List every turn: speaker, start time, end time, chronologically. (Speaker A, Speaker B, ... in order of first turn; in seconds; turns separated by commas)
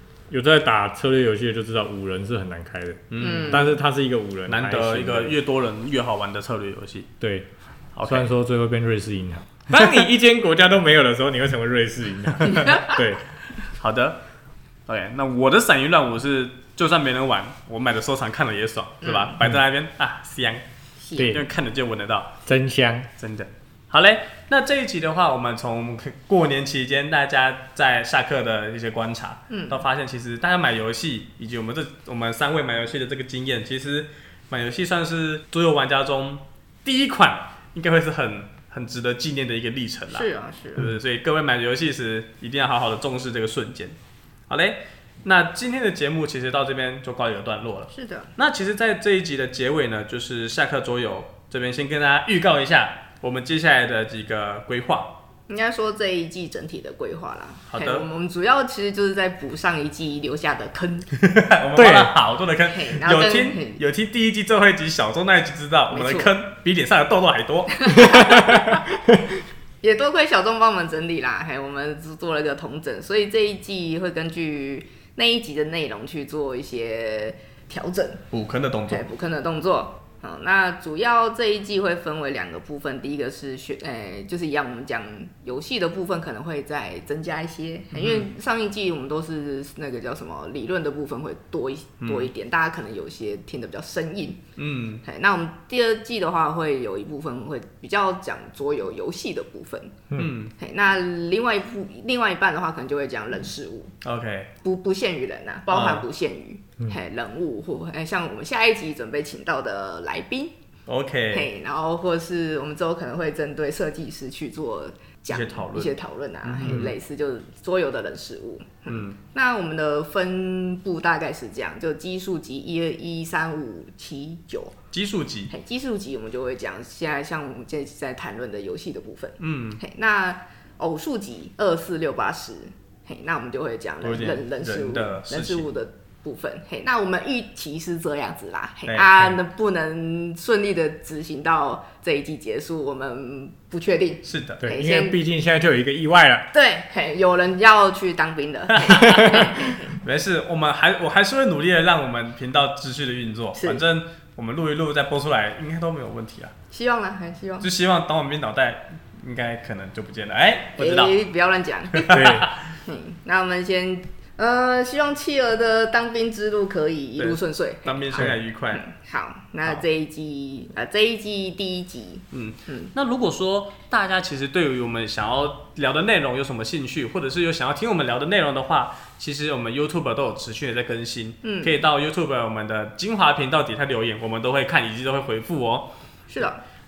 Speaker A: 0.3-5.4, Speaker B: 3.1-3.7, Speaker C: 3.2-3.8, Speaker B: 4.5-7.1, Speaker A: 7.2-7.5, Speaker B: 8.0-8.3, Speaker A: 8.0-13.2, Speaker C: 12.6-13.0, Speaker B: 13.8-14.2, Speaker B: 14.9-20.6, Speaker C: 19.0-19.3, Speaker C: 21.0-21.4, Speaker A: 21.1-21.4, Speaker B: 21.2-22.3, Speaker A: 22.4-23.1, Speaker B: 23.2-44.0, Speaker C: 29.5-29.8, Speaker C: 40.1-40.9, Speaker B: 44.5-55.1, Speaker C: 47.9-48.3, Speaker C: 55.5-61.1, Speaker B: 57.7-58.0, Speaker B: 61.1-68.1, Speaker A: 61.8-62.1, Speaker C: 62.7-63.8, Speaker C: 65.9-66.3, Speaker C: 67.8-68.8, Speaker C: 69.8-78.3, Speaker B: 78.3-79.0, Speaker C: 78.9-94.4, Speaker B: 87.9-88.3, Speaker B: 92.0-92.3, Speaker B: 94.6-95.0, Speaker C: 95.0-104.0, Speaker B: 100.2-100.5, Speaker B: 104.0-104.5, Speaker C: 104.6-110.5, Speaker B: 105.7-106.0, Speaker B: 110.9-111.5, Speaker C: 111.3-124.8, Speaker B: 115.3-115.9, Speaker B: 116.5-116.9, Speaker A: 116.6-116.9, Speaker B: 118.9-119.2, Speaker B: 124.9-125.5, Speaker C: 125.5-145.2, Speaker B: 129.4-129.8, Speaker B: 134.0-135.7, Speaker B: 138.9-139.3, Speaker B: 144.2-144.7, Speaker A: 144.6-146.5, Speaker C: 146.5-149.9, Speaker B: 148.7-156.5, Speaker C: 153.6-153.8, Speaker C: 156.7-157.7, Speaker B: 157.6-161.2, Speaker C: 160.8-162.2, Speaker B: 161.9-162.7, Speaker A: 162.1-162.5, Speaker C: 162.9-172.9, Speaker B: 167.2-168.8, Speaker B: 172.3-185.9, Speaker C: 181.4-181.7, Speaker C: 186.3-186.6